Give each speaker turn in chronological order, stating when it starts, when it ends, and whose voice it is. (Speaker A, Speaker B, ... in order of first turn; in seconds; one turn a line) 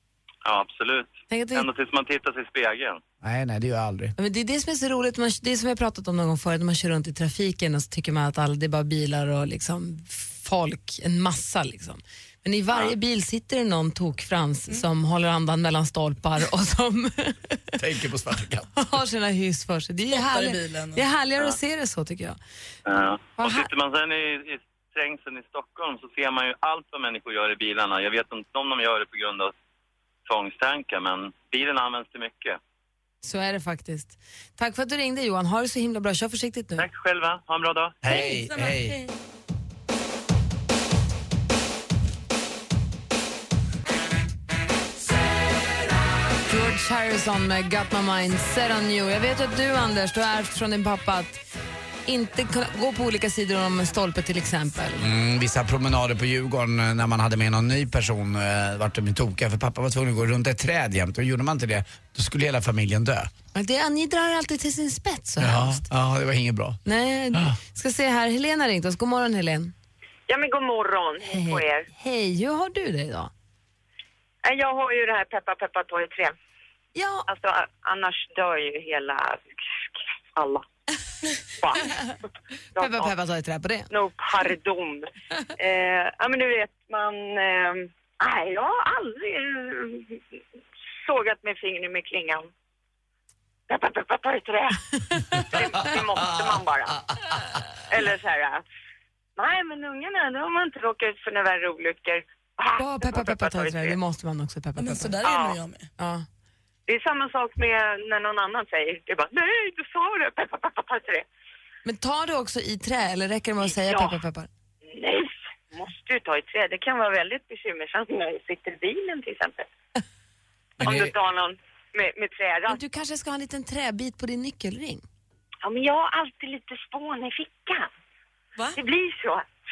Speaker A: 0.4-3.0
Speaker B: 1.3-1.7
Speaker C: 3.2-4.1
Speaker B: 4.2-17.7
Speaker C: 17.8-18.7
Speaker B: 18.7-22.4
Speaker D: 20.1-21.0
Speaker A: 22.9-29.5
Speaker B: 23.4-23.7
Speaker A: 30.3-32.6
Speaker B: 33.2-36.9
Speaker A: 36.8-38.0
Speaker C: 38.0-39.0
Speaker D: 38.0-39.1
Speaker B: 46.5-51.4
Speaker B: 52.1-55.1
Speaker C: 55.0-63.3
Speaker B: 63.5-65.8
Speaker C: 65.4-66.8
Speaker B: 66.8-69.7
Speaker E: 70.3-71.9
Speaker B: 71.3-73.3
Speaker E: 74.4-76.3
Speaker B: 76.9-77.3
Speaker E: 77.3-80.6
Speaker E: 81.5-82.1
Speaker E: 82.8-83.1
Speaker B: 82.8-83.9
Speaker E: 83.9-90.3
Speaker E: 91.0-92.5
Speaker E: 93.7-97.1
Speaker E: 97.9-98.6
Speaker E: 99.4-104.0
Speaker B: 102.8-105.2
Speaker D: 104.8-105.9
Speaker E: 105.2-105.6
Speaker B: 106.0-106.2
Speaker E: 106.9-111.2
Speaker B: 111.8-114.5
Speaker E: 113.7-114.1
Speaker E: 114.9-119.7
Speaker C: 120.8-121.1
Speaker E: 120.8-122.8
Speaker B: 122.7-125.0
Speaker E: 125.6-127.9
Speaker E: 128.8-129.4